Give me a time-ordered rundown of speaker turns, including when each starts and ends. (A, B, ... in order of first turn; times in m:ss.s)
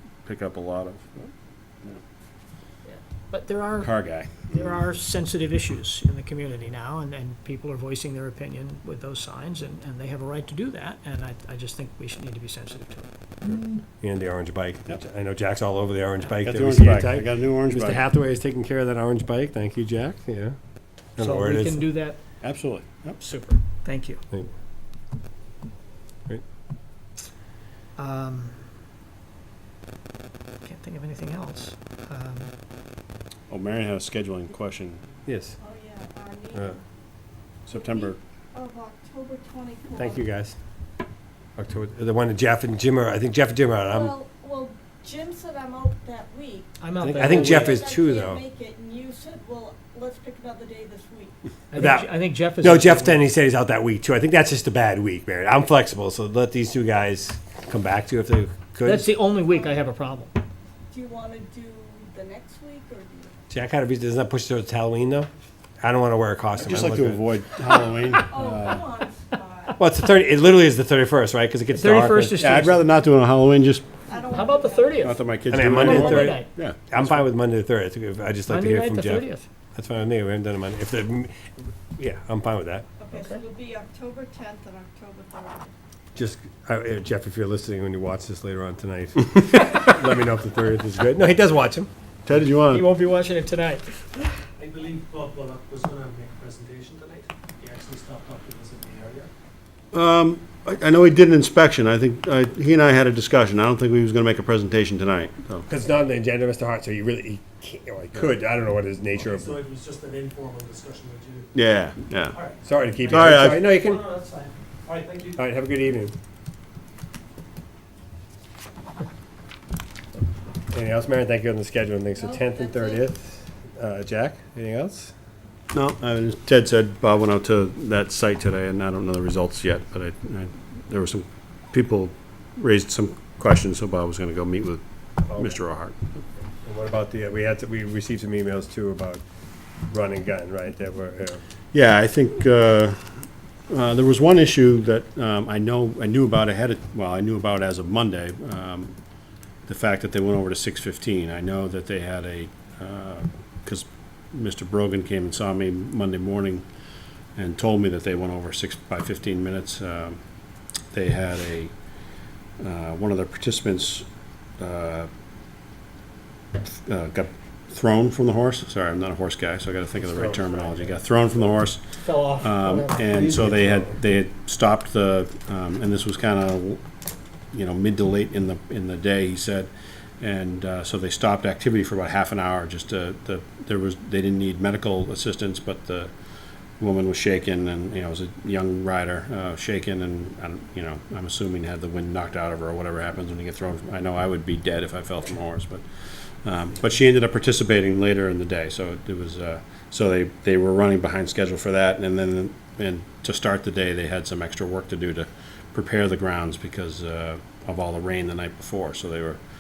0:00.2-0:01.3 A
0:02.9-0:13.1 B
0:03.8-0:04.8 A
0:13.4-0:13.8 A
0:14.0-0:20.6 C
0:16.3-0:18.0 A
0:21.2-0:21.9 C
0:21.2-0:22.2 B
0:22.4-0:23.2 A
0:23.2-0:24.2 B
0:28.0-0:28.7 B
0:30.6-0:32.5 B
0:33.5-0:35.0 A
0:35.3-0:35.6 C
0:35.6-0:36.8 D
0:37.7-0:38.2 A
0:37.7-0:40.2 D
0:40.0-0:40.6 C
0:41.6-0:44.2 C
0:43.9-0:51.4 D
0:46.8-0:47.8 B
0:47.0-0:48.4 C
0:51.7-0:53.2 B
0:51.8-0:59.1 C
0:58.8-1:00.4 B
0:59.4-0:59.8 D
1:00.9-1:03.4 D
1:03.5-1:05.3 C
1:05.8-1:07.3 C
1:06.6-1:08.9 A
1:08.2-1:09.8 D
1:09.8-1:12.4 C
1:11.7-1:12.8 B
1:12.4-1:13.9 A
1:14.1-1:15.2 D
1:14.2-1:16.5 B
1:15.0-1:17.2 A
1:15.5-1:22.9 C
1:18.5-1:19.5 B
1:23.0-1:25.7 D
1:23.1-1:23.4 B
1:26.2-1:31.9 C
1:32.3-1:32.9 A
1:32.7-1:34.3 B
1:34.6-1:39.3 E
1:39.9-1:45.7 A
1:45.7-1:49.6 C
1:49.2-1:51.5 E
1:51.5-1:52.4 A
1:52.3-1:55.4 E
1:52.6-1:54.0 C
1:53.1-1:53.7 A
1:55.4-1:56.2 C
2:00.7-2:05.1 C
2:02.2-2:03.0 D
2:05.7-2:16.0 A
2:15.3-2:15.6 C
2:16.6-2:19.2 C
2:19.9-2:21.4 C
2:21.7-2:28.9 A
2:29.7-2:36.6 A
2:37.4-2:40.2 A
2:40.9-2:41.7 A
2:42.6-2:44.1 A
2:44.6-2:45.1 A
2:46.6-2:56.8 A
2:50.0-2:51.0 C
2:52.0-2:53.3 B
2:53.2-2:54.0 C
2:57.5-3:06.1 A
3:06.8-3:15.9 A
3:16.4-3:29.4 A